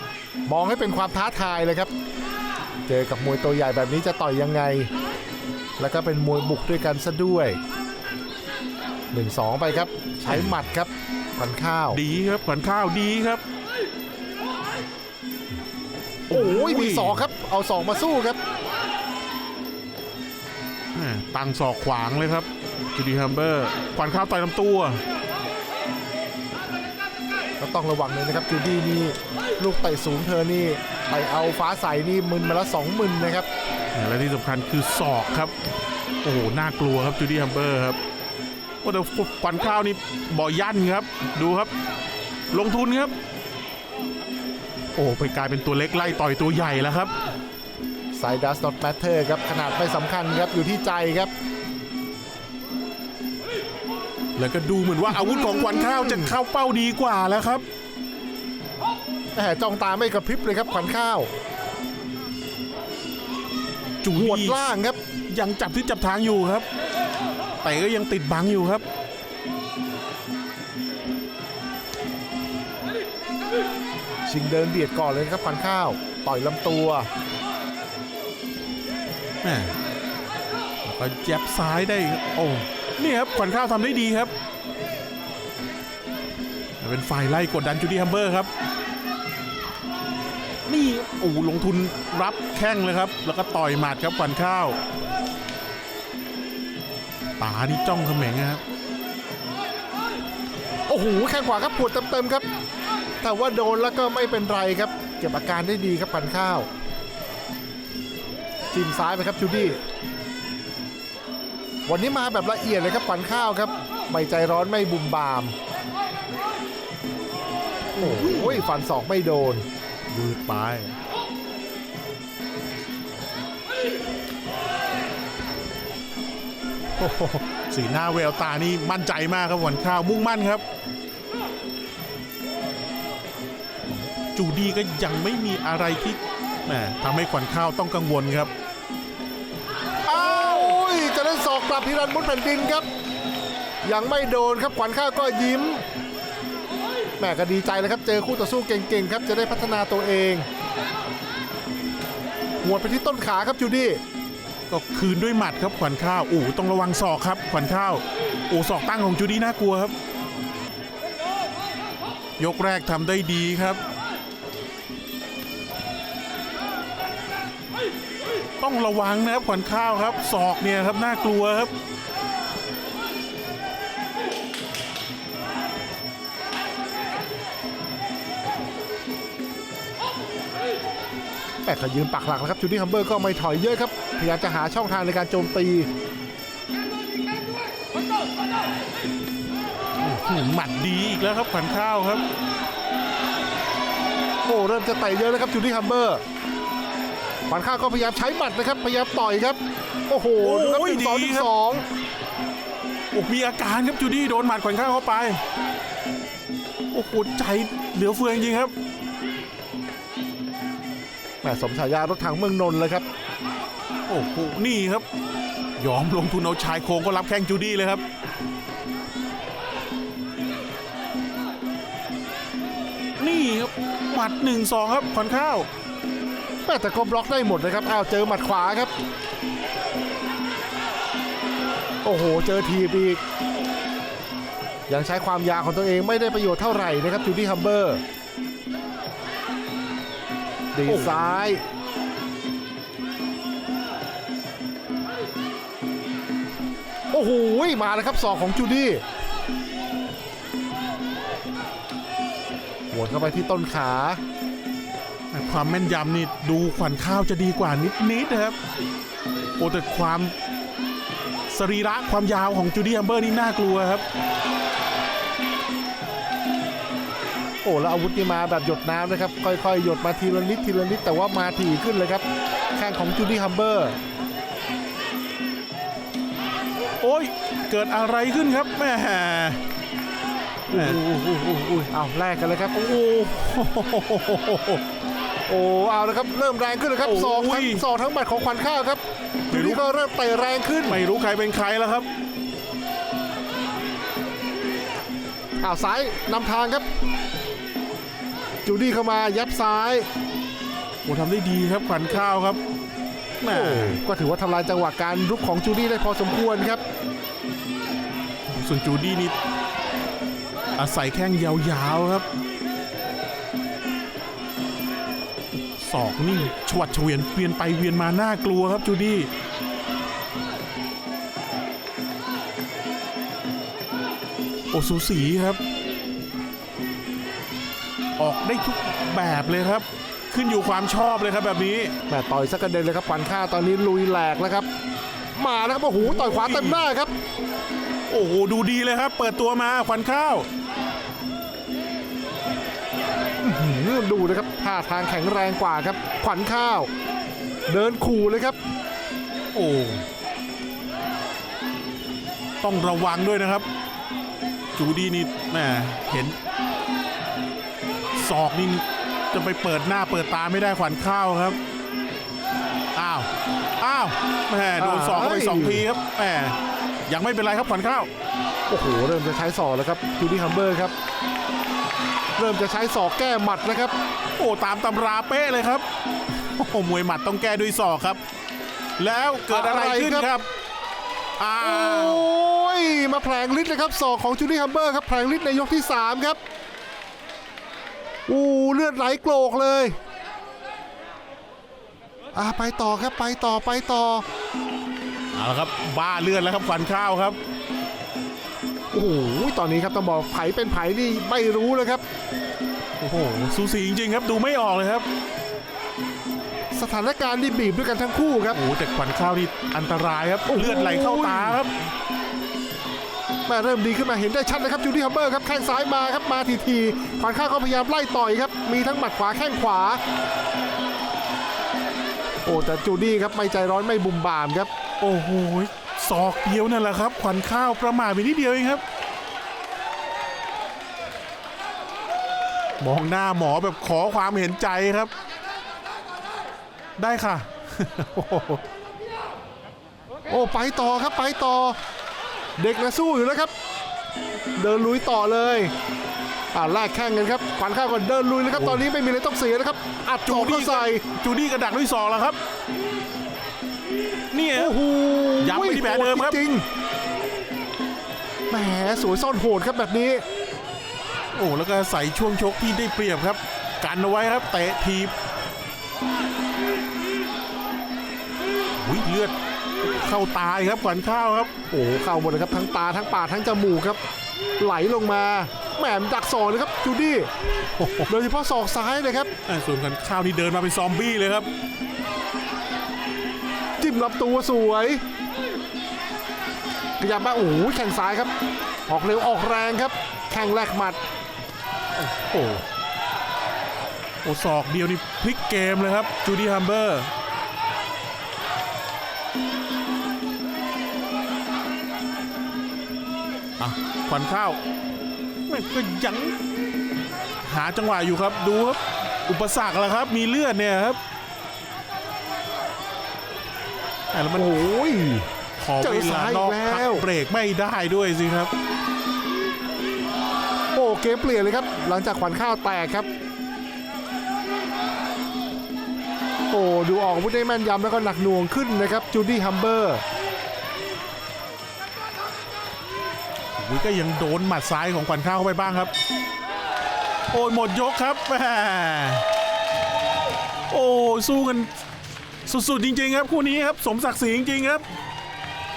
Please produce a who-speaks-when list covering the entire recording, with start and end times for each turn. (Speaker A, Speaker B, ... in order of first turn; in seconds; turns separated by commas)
Speaker A: 0.5-1.9, Speaker A: 2.9-4.9, Speaker A: 5.8-7.6, Speaker A: 9.1-12.0, Speaker B: 10.2-10.6, Speaker B: 11.9-13.4, Speaker B: 16.3-17.3, Speaker A: 16.3-18.4, Speaker B: 20.9-25.0, Speaker A: 27.6-33.5, Speaker B: 33.9-35.5, Speaker B: 36.2-38.0, Speaker B: 38.8-41.7, Speaker B: 42.5-43.1, Speaker B: 45.0-47.1, Speaker A: 48.1-51.3, Speaker B: 54.4-57.6, Speaker A: 55.1-56.4, Speaker A: 59.4-61.3, Speaker B: 64.0-64.7, Speaker A: 64.2-65.0, Speaker B: 65.3-66.7, Speaker B: 67.6-68.8, Speaker A: 74.3-77.1, Speaker B: 79.4-79.8, Speaker B: 80.8-84.3, Speaker B: 86.8-88.5, Speaker B: 90.7-94.8, Speaker B: 97.4-98.6, Speaker A: 100.9-102.5, Speaker A: 103.2-106.7, Speaker A: 108.7-109.8, Speaker A: 111.9-115.6, Speaker B: 118.0-118.7, Speaker A: 118.0-119.7, Speaker B: 120.1-121.0, Speaker B: 127.3-130.6, Speaker B: 134.3-138.5, Speaker B: 140.1-140.8, Speaker A: 140.1-142.9, Speaker A: 143.8-145.8, Speaker A: 147.2-150.5, Speaker A: 152.6-154.0, Speaker B: 154.7-159.9, Speaker B: 162.4-163.8, Speaker B: 168.6-171.7, Speaker A: 181.6-185.9, Speaker B: 190.0-192.2, Speaker A: 194.4-196.2, Speaker A: 197.5-201.9, Speaker B: 200.4-201.5, Speaker B: 203.1-205.4, Speaker B: 206.9-208.7, Speaker A: 211.4-213.1, Speaker B: 214.1-215.1, Speaker B: 215.8-218.0, Speaker B: 223.2-225.7, Speaker A: 226.7-228.9, Speaker A: 232.0-233.2, Speaker A: 234.9-238.0, Speaker A: 240.7-241.6, Speaker B: 240.9-241.4, Speaker A: 247.1-249.0, Speaker A: 252.9-254.2, Speaker B: 255.3-258.6, Speaker B: 259.6-260.4, Speaker B: 261.5-264.0, Speaker A: 267.6-272.2, Speaker A: 272.8-274.0, Speaker B: 277.0-279.6, Speaker A: 280.7-282.7, Speaker B: 280.7-281.0, Speaker B: 282.7-284.8, Speaker A: 285.5-291.0, Speaker B: 287.0-287.9, Speaker B: 289.5-289.8, Speaker B: 290.9-292.1, Speaker A: 295.6-296.9, Speaker A: 298.6-300.1, Speaker B: 301.1-302.6, Speaker B: 303.4-304.0, Speaker A: 303.5-306.8, Speaker B: 308.5-309.4, Speaker B: 310.8-312.3, Speaker B: 315.8-319.3, Speaker B: 324.7-325.6, Speaker B: 328.2-331.9, Speaker A: 332.1-334.7, Speaker A: 335.4-337.1, Speaker B: 336.0-336.8, Speaker B: 338.1-340.5, Speaker A: 343.4-346.9, Speaker A: 347.7-348.6, Speaker B: 349.5-350.1, Speaker B: 352.6-353.7, Speaker B: 354.8-356.4, Speaker B: 358.1-361.6, Speaker B: 362.9-366.6, Speaker A: 364.8-365.9, Speaker B: 367.1-368.1, Speaker A: 368.7-370.9, Speaker A: 372.4-373.9, Speaker B: 374.4-375.9, Speaker B: 376.4-378.2, Speaker B: 379.0-380.5, Speaker A: 379.5-380.3, Speaker B: 381.4-382.2, Speaker A: 381.6-386.4, Speaker A: 388.3-390.0, Speaker A: 392.3-394.2, Speaker B: 395.3-397.4, Speaker A: 398.9-402.0, Speaker B: 403.0-405.1, Speaker A: 406.7-408.6, Speaker B: 408.5-411.8, Speaker A: 410.5-411.6, Speaker A: 413.5-420.0, Speaker A: 422.4-424.7, Speaker B: 425.0-428.8, Speaker B: 432.8-435.1, Speaker B: 437.0-438.5, Speaker A: 440.3-441.8, Speaker A: 442.6-443.5, Speaker A: 444.6-445.7, Speaker A: 446.5-451.0, Speaker B: 448.5-448.8, Speaker B: 450.3-452.4, Speaker B: 454.3-454.8, Speaker A: 454.6-456.6, Speaker B: 455.4-456.4, Speaker A: 458.5-460.2, Speaker B: 461.3-465.1, Speaker B: 468.8-471.5, Speaker A: 471.7-474.0, Speaker A: 474.6-477.3, Speaker B: 477.8-478.1, Speaker A: 478.1-479.3, Speaker B: 479.5-481.5, Speaker A: 483.8-485.0, Speaker A: 487.0-488.3, Speaker A: 488.9-491.0, Speaker B: 492.0-492.6, Speaker B: 494.2-497.1, Speaker B: 503.6-504.6, Speaker B: 505.5-506.3, Speaker B: 507.4-511.0, Speaker B: 514.1-514.6, Speaker A: 514.4-515.3, Speaker B: 515.6-518.5, Speaker A: 515.8-517.1, Speaker A: 520.7-523.1, Speaker A: 526.5-530.0, Speaker B: 533.6-535.9, Speaker B: 537.3-539.2, Speaker B: 540.7-541.7, Speaker B: 542.5-544.8